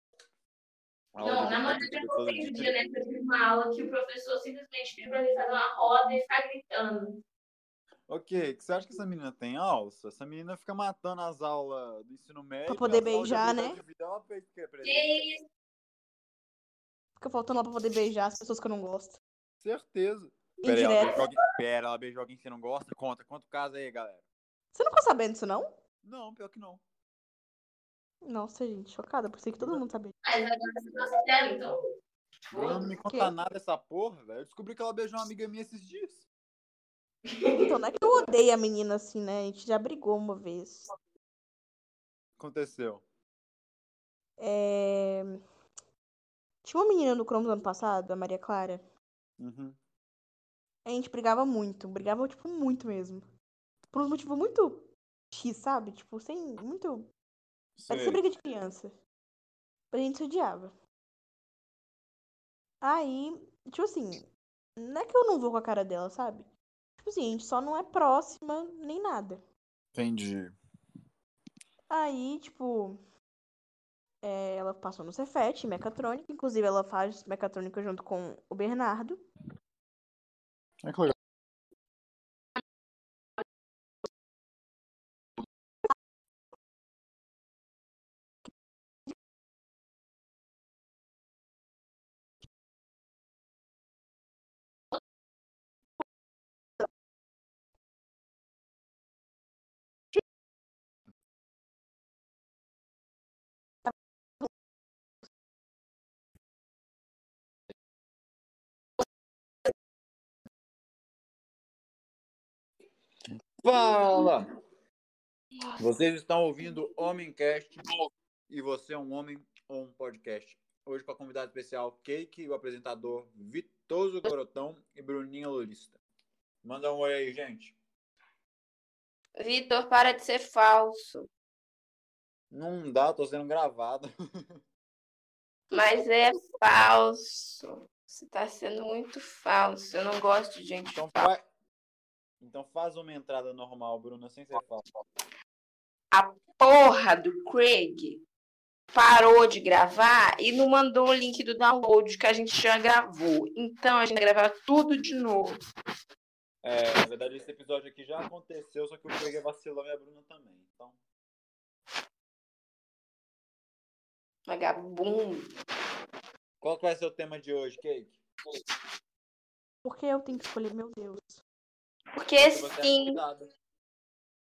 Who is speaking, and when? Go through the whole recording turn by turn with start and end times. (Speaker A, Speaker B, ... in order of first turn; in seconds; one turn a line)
Speaker A: 1.1-2.7
Speaker B: 1.2-7.2
Speaker A: 8.1-15.2
Speaker C: 12.7-13.8
Speaker B: 14.8-15.4
Speaker C: 17.2-19.2
Speaker A: 19.6-24.2
Speaker C: 20.6-21.2
Speaker B: 21.0-21.3
Speaker C: 24.7-25.7
Speaker A: 26.0-26.8
Speaker C: 28.2-30.1
Speaker B: 30.2-31.8
Speaker B: 32.5-32.9
Speaker A: 32.5-36.2
Speaker C: 33.0-33.3
Speaker B: 37.3-37.7
Speaker C: 37.6-40.9
Speaker A: 42.4-43.0
Speaker C: 44.4-45.4
Speaker C: 46.6-48.8
Speaker A: 49.4-49.8
Speaker C: 50.8-53.2
Speaker C: 53.9-57.1
Speaker A: 57.8-58.2
Speaker C: 57.9-58.9
Speaker C: 59.9-60.7
Speaker C: 62.8-66.5
Speaker C: 67.0-69.4
Speaker A: 69.9-70.5
Speaker C: 71.9-73.0
Speaker C: 74.2-79.2
Speaker A: 80.8-81.1
Speaker A: 113.6-114.5
Speaker A: 115.8-117.8
Speaker A: 118.5-126.0
Speaker A: 126.6-127.8
Speaker B: 129.4-131.3
Speaker A: 132.5-134.5
Speaker B: 135.7-141.2
Speaker A: 140.9-141.4
Speaker A: 142.4-144.8
Speaker B: 146.1-148.2
Speaker B: 148.9-155.6
Speaker A: 156.6-161.0
Speaker B: 164.5-165.5
Speaker A: 166.6-168.2
Speaker C: 169.8-171.4
Speaker B: 172.2-173.2
Speaker A: 172.4-173.5